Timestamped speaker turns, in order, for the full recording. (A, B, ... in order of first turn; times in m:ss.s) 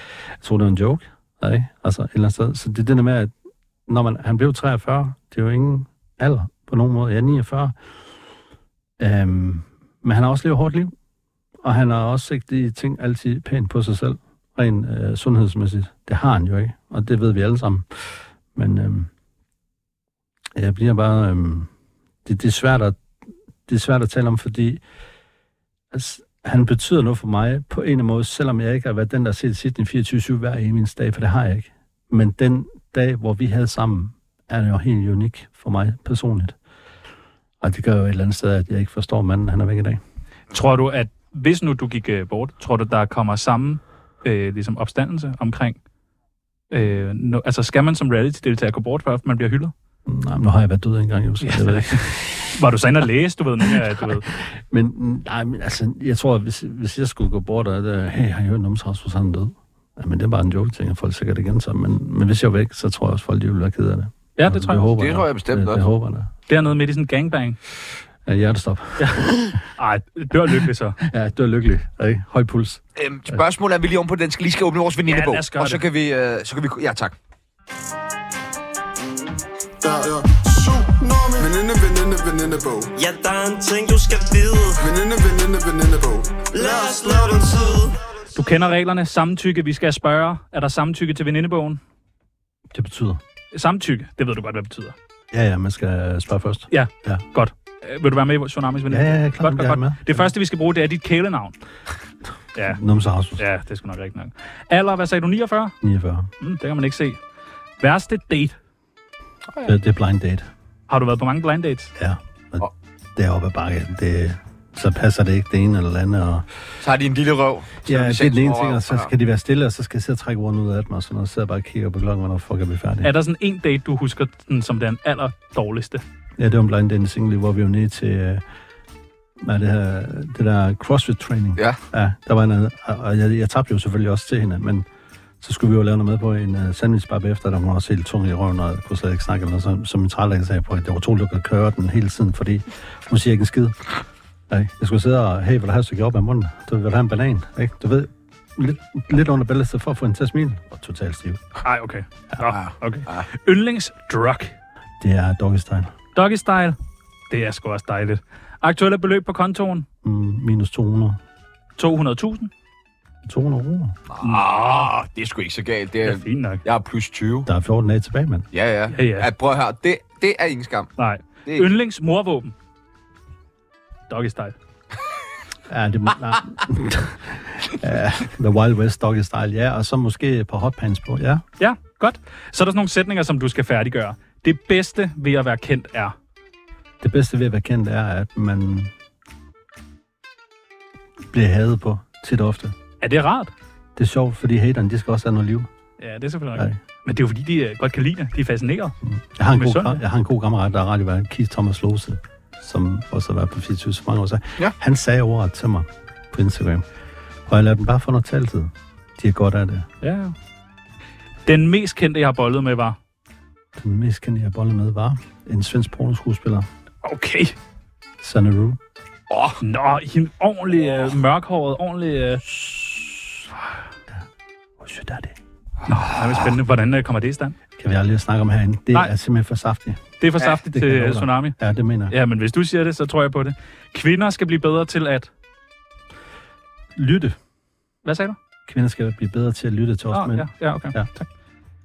0:00.4-0:03.3 A
0:03.9-0:07.8 A
0:09.0-0:10.9 A
0:11.6-0:17.9 A
0:18.5-0:19.1 A
0:20.6-0:21.7 A
0:22.2-0:23.0 A
0:23.7-0:24.8 A
0:25.9-0:36.6 A
0:37.6-0:40.0 A
0:40.5-0:45.8 B
0:46.7-0:49.7 B
0:50.1-0:52.5 A
0:51.4-0:54.3 B
0:54.0-1:06.3 A
1:04.4-1:04.8 B
1:04.9-1:05.8 C
1:06.5-1:07.6 B
1:08.3-1:09.6 A
1:09.0-1:11.0 B
1:11.0-1:12.8 A
1:13.0-1:17.1 C
1:15.1-1:15.8 B
1:19.8-1:22.9 D
1:23.0-1:24.8 E
1:24.8-1:27.6 D
1:26.5-1:27.9 E
1:28.4-1:31.8 B
1:32.7-1:33.2 A
1:33.5-1:35.0 B
1:35.3-1:37.2 A
1:36.7-1:41.6 B
1:38.9-1:40.3 A
1:42.6-1:42.8 B
1:42.7-1:43.4 A
1:43.4-1:45.8 B
1:45.8-1:46.3 A
1:46.4-1:47.2 B
1:47.8-1:48.6 B
1:49.6-1:50.5 A
1:50.9-1:51.9 B
1:52.0-1:56.5 A
1:56.8-1:59.1 C
1:57.9-2:03.1 A
2:03.0-2:06.0 B
2:06.4-2:08.4 A
2:09.4-2:14.9 A
2:15.4-2:23.9 A
2:24.5-2:31.4 A
2:31.6-2:34.6 B
2:32.6-2:33.2 C
2:35.0-2:35.9 A
2:36.2-2:36.8 B
2:37.3-2:39.9 B
2:40.0-2:41.2 A
2:41.8-2:42.5 B
2:43.3-2:44.0 A
2:44.1-2:47.5 C
2:44.2-2:44.9 B
2:46.0-2:46.6 B
2:47.4-2:48.5 A
2:48.5-2:50.9 C
2:48.9-2:49.3 B
2:51.0-2:52.5 B
2:54.1-2:54.6 B
2:55.7-3:01.4 A
3:01.6-3:06.2 B
3:07.0-3:08.9 A
3:11.3-3:12.8 A
3:13.0-3:13.5 B
3:14.0-3:15.7 A
3:16.0-3:19.0 B
3:19.0-3:26.8 A
3:19.5-3:20.0 B
3:27.5-3:29.9 A
3:30.0-3:30.3 B
3:31.5-3:33.0 B
3:33.8-3:36.7 A
3:37.0-3:37.6 B
3:38.2-3:38.8 A
3:39.3-3:39.6 C
3:39.6-3:42.5 B
3:42.6-3:43.4 A
3:44.8-3:45.4 A
3:45.9-3:47.6 B
3:47.8-3:50.0 A
3:50.2-3:51.6 B
3:50.7-3:52.2 A
3:52.1-3:55.3 B
3:57.0-3:57.4 A
3:58.0-3:58.4 B
3:58.7-4:01.1 A
4:00.1-4:01.3 B